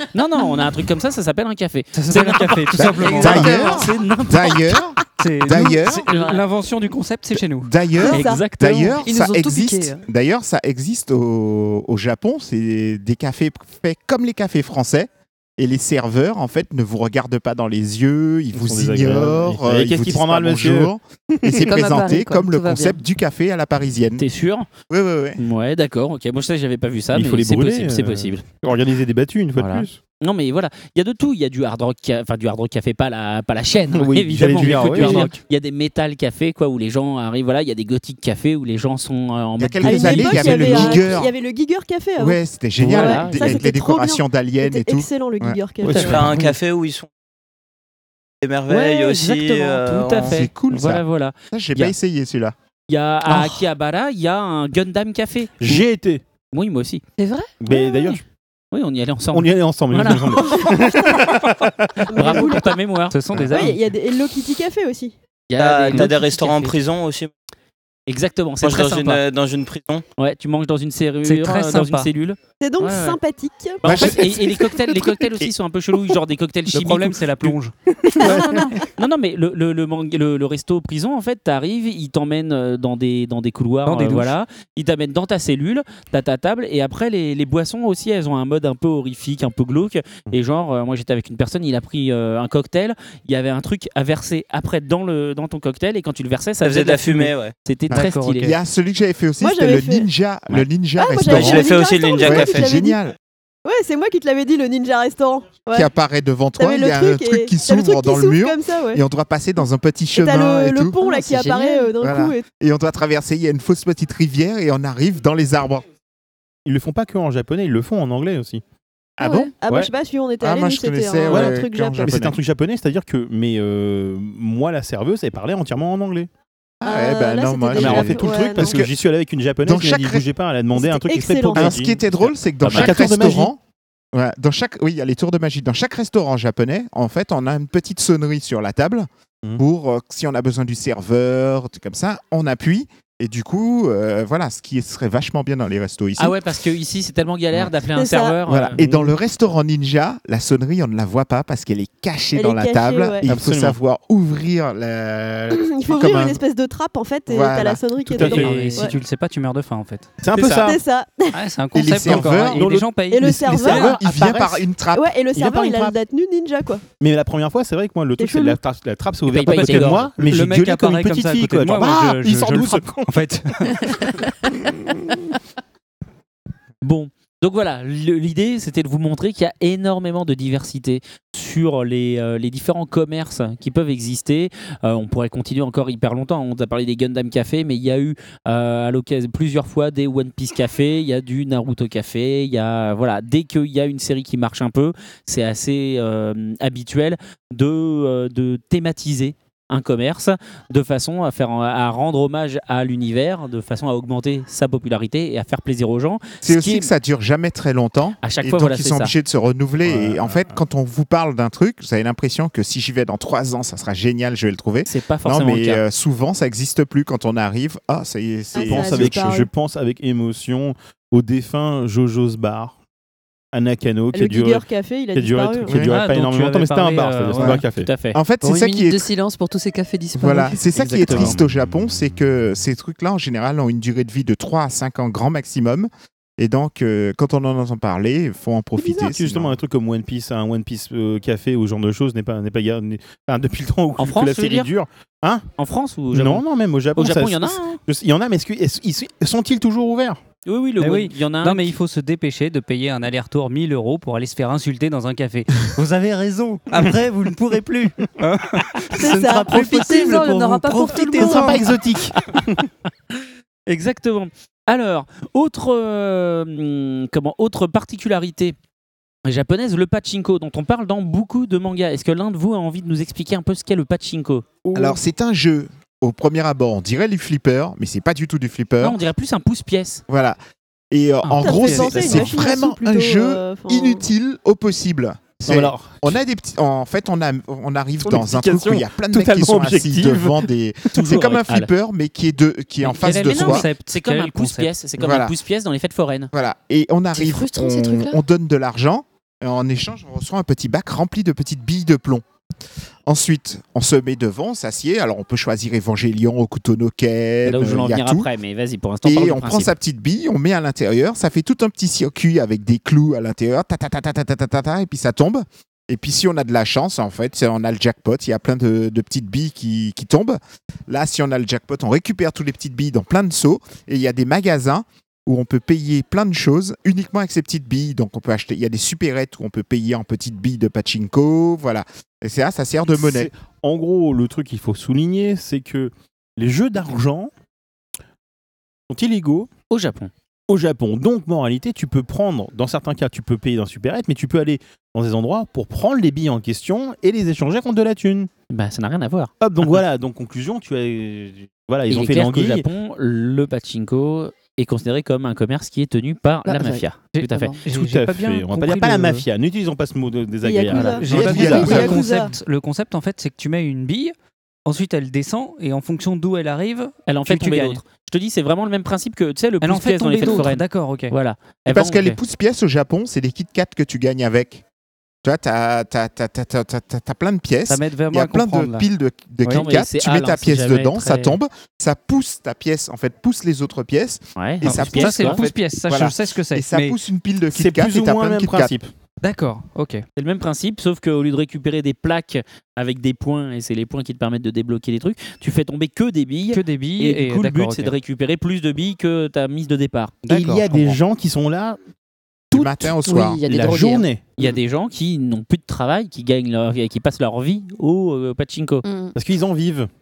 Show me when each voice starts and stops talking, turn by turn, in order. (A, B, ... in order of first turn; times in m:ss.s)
0:00.1-0:04.6 A
0:00.4-0:00.7 B
0:01.9-0:03.6 C
0:02.9-0:03.9 B
0:03.2-0:06.1 D
0:04.8-0:05.0 B
0:05.2-0:07.7 C
0:05.8-0:06.4 B
0:07.6-0:24.2 D
0:08.0-0:08.4 E
0:08.1-0:09.1 A
0:09.0-0:10.0 B
0:18.5-0:21.6 F
0:21.6-0:23.0 B
0:24.2-0:24.7 A
0:24.9-0:25.4 D
0:25.4-0:28.5 A
0:27.1-0:30.0 F
0:29.6-0:41.1 A
0:33.9-0:35.4 F
0:34.7-0:35.3 C
0:39.6-0:41.3 D
0:39.8-0:46.3 E
0:42.2-0:46.0 D
0:42.8-0:43.6 A
0:45.8-0:46.5 F
0:45.9-0:46.2 A
0:46.0-0:47.1 G
0:48.4-0:50.4 G
0:48.7-0:51.9 A
0:50.3-0:52.6 D
0:52.9-0:55.8 A
0:53.3-0:53.6 C
0:55.6-0:56.2 F
0:56.5-0:57.0 A
0:57.2-0:58.1 B
0:57.6-0:58.2 F
0:58.7-1:00.6 A
0:59.3-1:01.6 F
1:02.0-1:03.7 A
1:02.1-1:02.8 E
1:03.1-1:03.8 C
1:03.4-1:03.6 F
1:03.5-1:05.1 E
1:05.5-1:06.8 A
1:05.6-1:07.3 G
1:08.1-1:09.2 A
1:08.6-1:10.0 G
1:10.2-1:13.2 A
1:11.2-1:12.1 C
1:12.6-1:13.8 E
1:13.8-1:17.6 A
1:13.8-1:15.5 D
1:16.7-1:18.7 C
1:18.1-1:18.4 D
1:18.2-1:38.6 A
1:23.9-1:24.4 C
1:36.6-1:37.5 G
1:37.9-1:43.2 D
1:37.9-1:38.6 C
1:39.4-1:40.1 E
1:41.0-1:43.0 E
1:41.3-1:42.7 G
1:43.6-1:45.9 E
1:45.7-1:51.0 D
1:46.6-1:49.0 E
1:50.2-1:52.4 E
1:51.0-1:51.9 B
1:52.0-1:55.9 D
1:56.6-1:58.6 F
1:59.2-1:59.5 D
1:59.2-2:02.3 E
1:59.2-1:59.5 B
2:00.4-2:02.4 D
2:01.3-2:06.3 F
2:06.8-2:08.9 D
2:06.8-2:08.9 E
2:07.7-2:13.5 F
2:09.6-2:10.2 D
2:10.7-2:11.9 E
2:11.5-2:13.6 D
2:12.6-2:13.0 A
2:14.1-2:26.4 D
2:26.2-2:28.8 A
2:28.0-2:28.4 E
2:28.5-2:36.4 D
2:32.4-2:33.3 E
2:33.2-2:33.8 F
2:35.5-2:39.0 E
2:37.3-2:37.8 D
2:38.1-2:38.8 F
2:38.1-2:40.2 C
2:40.2-2:40.8 F
2:40.4-2:40.7 A
2:40.4-2:41.4 E
2:41.3-2:44.0 C
2:41.7-2:45.1 D
2:42.0-2:43.0 F
2:43.1-2:44.0 E
2:43.6-2:44.6 F
2:44.9-2:46.8 E
2:45.4-2:45.9 F
2:47.0-2:53.2 F
2:48.2-2:48.6 E
2:49.3-2:50.1 A
2:49.5-2:54.3 C
2:56.8-3:26.9 A
3:26.4-3:39.2 D
3:28.2-3:29.1 A
3:29.9-3:30.6 F
3:34.8-3:35.8 A
3:38.6-3:39.5 E
3:38.6-3:42.8 F
3:43.5-3:47.9 F
3:44.1-3:45.8 E
3:45.7-3:47.6 C
3:47.4-3:49.1 D
3:47.7-3:48.2 A
3:48.4-3:50.6 B
3:50.2-3:59.6 D
3:50.8-3:51.4 A
3:51.0-3:52.0 F
3:58.8-4:05.5 F
4:04.0-4:04.7 A
4:05.6-4:07.8 A
4:06.1-4:10.2 F
4:10.5-4:11.7 A
4:10.8-4:22.4 C
4:19.0-4:20.2 E
4:19.5-4:21.7 B
4:21.0-4:22.7 F
4:23.7-4:28.6 A
4:29.2-4:34.5 A
4:34.7-4:35.0 F
4:34.7-4:39.0 D
4:38.8-4:40.0 A
4:40.1-4:40.4 D
4:40.9-4:53.7 D
4:41.2-4:42.2 C
4:41.4-4:44.1 E
4:41.9-4:42.3 F
4:45.4-4:46.2 F
4:48.0-4:50.5 F
4:50.9-4:51.7 A
4:52.8-4:54.7 C
4:53.0-4:56.3 A
4:55.0-4:55.3 D
4:56.3-5:02.2 D
4:57.2-4:58.2 B
5:03.1-5:08.3 D
5:07.4-5:09.7 A
5:09.0-5:33.3 D
5:32.9-5:37.3 F
5:38.9-5:39.5 F
5:39.7-5:40.1 A
5:40.5-5:48.3 F
5:48.5-5:49.8 A
5:49.4-5:52.7 F
5:51.9-5:57.5 A
5:56.5-5:57.6 B
5:57.1-5:59.3 C
5:57.7-6:02.0 F
6:00.4-6:02.3 E
6:00.7-6:04.1 C
6:01.1-6:02.0 D
6:04.7-6:07.8 C
6:07.1-6:12.2 A
6:09.6-6:11.2 C
6:11.7-6:14.6 D
6:15.2-6:28.7 D
6:17.7-6:18.9 C
6:19.5-6:21.4 A
6:24.4-6:25.5 A
6:24.6-6:27.0 C
6:27.6-6:28.9 F
6:29.2-6:30.0 C
6:30.2-6:40.2 A
6:36.5-6:37.9 C
6:40.3-6:41.0 C
6:40.3-6:41.8 F
6:42.5-6:43.4 D
6:42.5-6:44.4 F
6:43.0-6:44.1 B
6:44.4-6:48.8 A
6:48.8-6:49.2 B
6:49.2-6:49.9 F